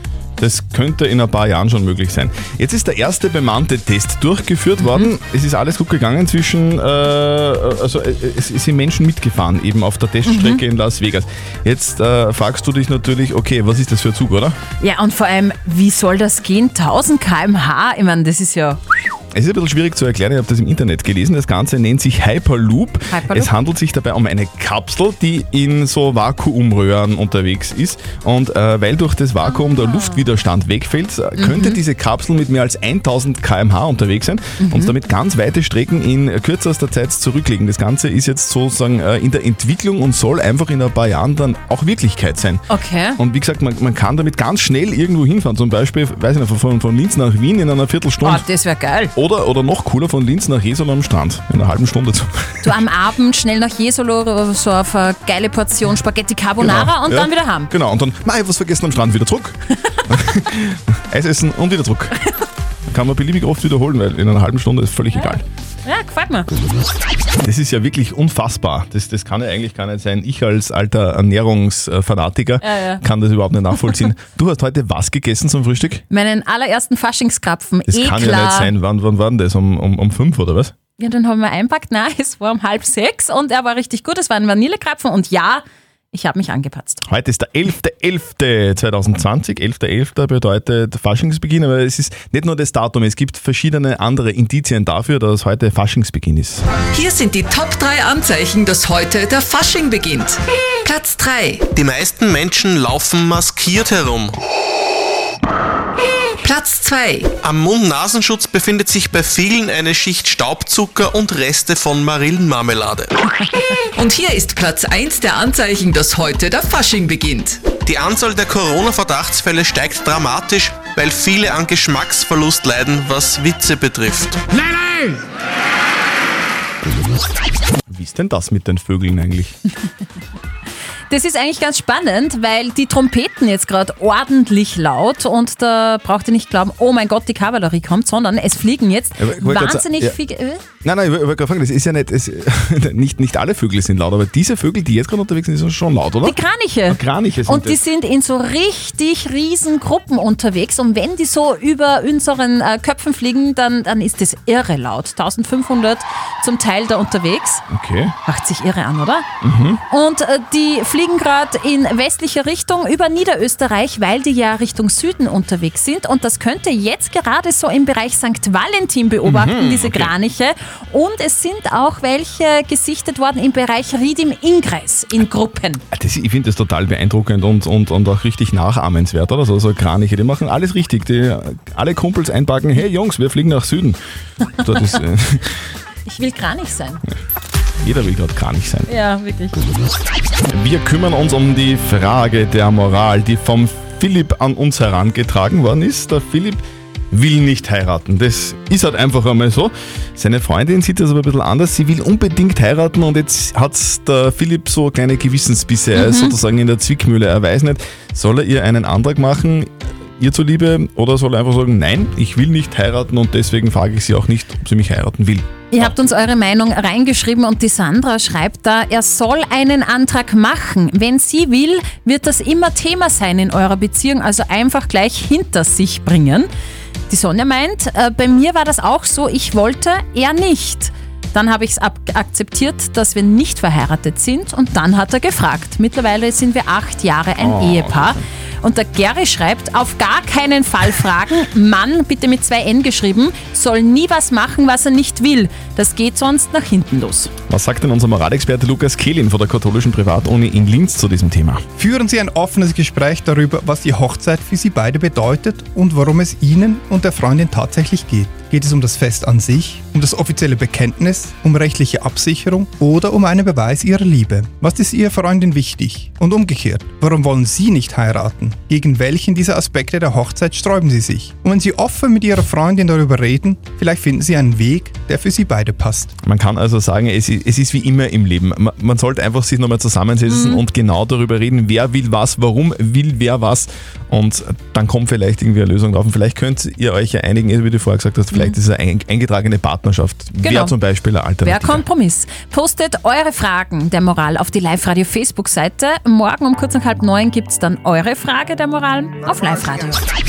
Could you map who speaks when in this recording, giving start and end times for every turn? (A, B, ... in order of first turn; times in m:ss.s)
0:00.4-0:14.6 A
0:10.2-0:10.6 B
0:14.8-0:18.8 B
0:19.3-0:42.6 A
0:23.1-0:23.5 B
0:29.4-0:30.2 B
0:31.4-0:31.8 B
0:34.6-0:34.9 B
0:42.7-0:43.2 B
0:43.2-0:48.4 A
0:48.2-0:49.1 B
0:49.1-0:52.8 A
0:52.6-0:57.7 B
0:56.6-0:59.6 A
1:00.1-1:02.1 A
1:02.9-1:05.4 A
1:05.8-1:06.5 B
1:07.4-1:16.0 A
1:12.6-1:13.0 B
1:16.1-1:18.7 B
1:17.9-1:20.7 A
1:21.0-1:27.0 B
1:27.0-1:36.6 A
1:36.9-1:41.7 C
1:41.7-1:44.4 D
1:46.4-1:47.3 C
1:47.4-1:53.1 D
1:53.9-1:57.6 C
1:57.8-2:04.4 D
2:07.9-2:09.5 A
2:11.1-2:20.6 B
2:19.2-2:20.2 A
2:20.8-2:27.8 A
2:26.2-2:37.6 B
2:37.7-2:38.1 A
2:38.2-2:39.2 B
2:39.4-2:39.8 A
2:39.9-2:55.8 B
2:49.2-2:50.1 A
2:55.9-3:04.0 A
3:04.6-3:05.6 A
3:06.0-3:07.0 B
3:07.8-3:08.9 A
3:08.9-3:09.6 B
3:10.5-3:36.0 A
3:25.9-3:26.3 B
3:35.7-3:46.5 B
3:47.1-4:07.3 B
3:57.4-3:58.2 A
4:07.5-4:11.6 A
4:11.8-4:36.1 E
4:36.2-4:51.8 A
4:40.3-4:40.6 B
4:50.4-4:50.8 B
4:51.4-5:00.0 B